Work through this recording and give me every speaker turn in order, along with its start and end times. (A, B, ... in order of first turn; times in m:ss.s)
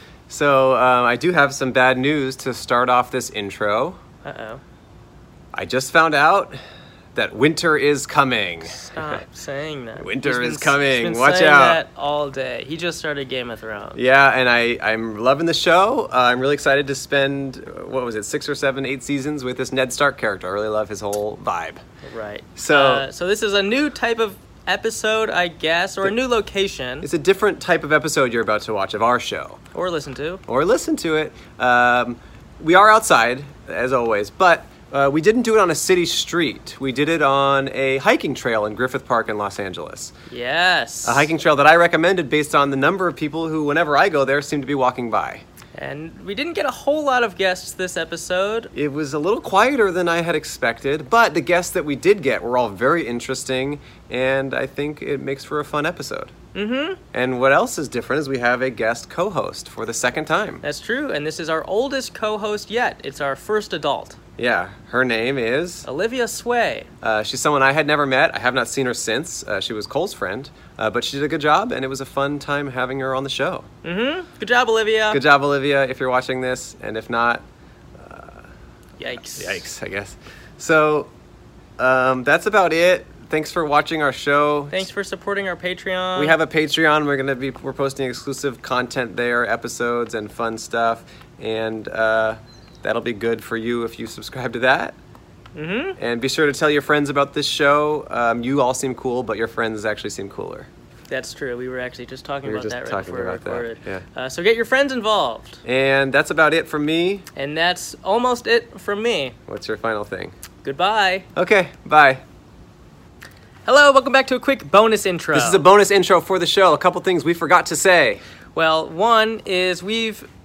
0:00.3-0:04.0 A
0:04.2-0:04.6 B
0:05.5-0:06.6 A
0:07.2-0:09.2 A
0:08.6-0:14.0 B
0:10.0-0:11.8 A
0:14.0-0:21.8 A
0:22.0-0:27.1 B
0:22.6-0:23.1 A
0:27.0-0:29.6 A
0:29.7-0:30.4 B
0:30.5-0:40.1 A
0:40.3-0:41.3 B
0:41.0-0:45.4 A
0:45.8-0:48.7 B
0:48.7-0:56.3 A
0:56.5-0:57.0 B
0:57.1-1:00.6 A
1:00.6-1:04.2 B
1:04.4-1:05.9 A
1:05.8-1:06.9 B
1:07.0-1:13.7 A
1:13.8-1:15.2 B
1:15.1-1:17.4 A
1:18.0-1:18.5 A
1:19.0-1:19.7 B
1:19.3-1:21.1 A
1:21.8-1:24.9 A
1:24.7-1:26.4 B
1:26.2-1:35.0 A
1:35.6-1:36.0 B
1:36.0-1:40.7 A
1:41.1-1:45.6 B
1:42.4-1:44.0 A
1:45.6-1:47.3 A
1:47.4-1:49.4 B
1:49.5-1:50.3 A
1:50.6-1:51.3 B
1:51.4-1:52.2 A
1:53.7-1:55.6 B
1:55.3-1:58.2 A
1:58.6-2:00.3 B